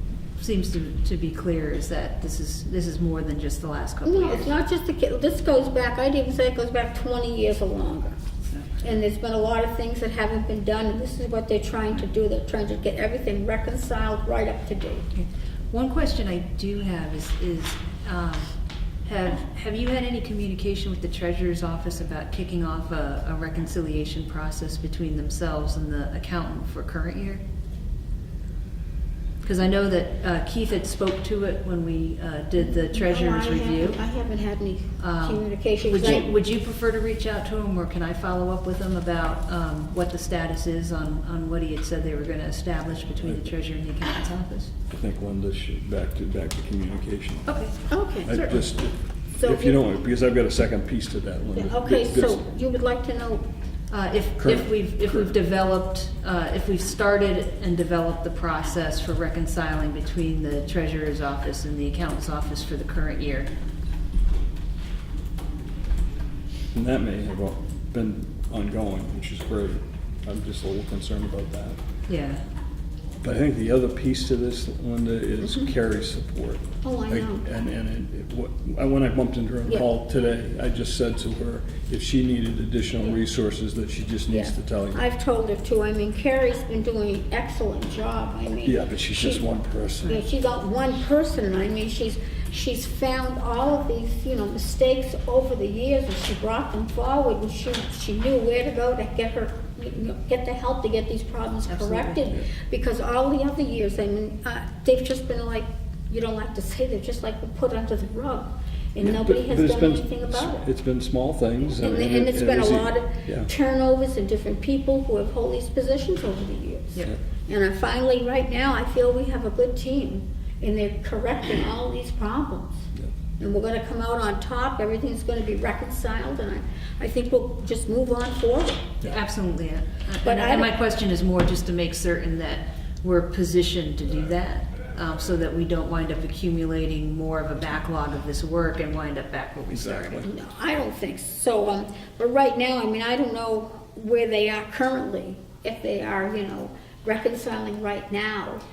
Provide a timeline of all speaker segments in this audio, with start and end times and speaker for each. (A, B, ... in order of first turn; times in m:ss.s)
0:00.4-0:04.5 A
0:04.0-0:08.2 B
0:08.8-0:15.0 B
0:15.1-0:18.5 A
0:19.0-0:27.4 A
0:29.4-0:34.0 A
0:32.6-0:36.3 B
0:35.0-0:44.7 A
0:44.9-0:47.6 C
0:47.4-0:47.8 A
0:47.9-0:48.4 B
0:48.2-0:52.4 C
0:49.4-0:49.8 B
0:51.5-0:53.4 B
0:53.9-1:03.5 A
0:54.4-0:55.3 C
1:06.7-1:11.8 C
1:12.1-1:12.4 A
1:13.2-1:25.0 C
1:16.8-1:17.4 B
1:24.3-1:29.5 B
1:28.6-1:30.2 C
1:30.0-1:50.6 B
1:41.7-1:42.2 A
1:49.0-1:53.5 C
1:51.8-2:02.8 B
2:03.4-2:08.9 B
2:09.1-2:20.2 A
2:10.2-2:10.7 B
2:19.7-2:20.2 C
2:20.2-2:28.6 B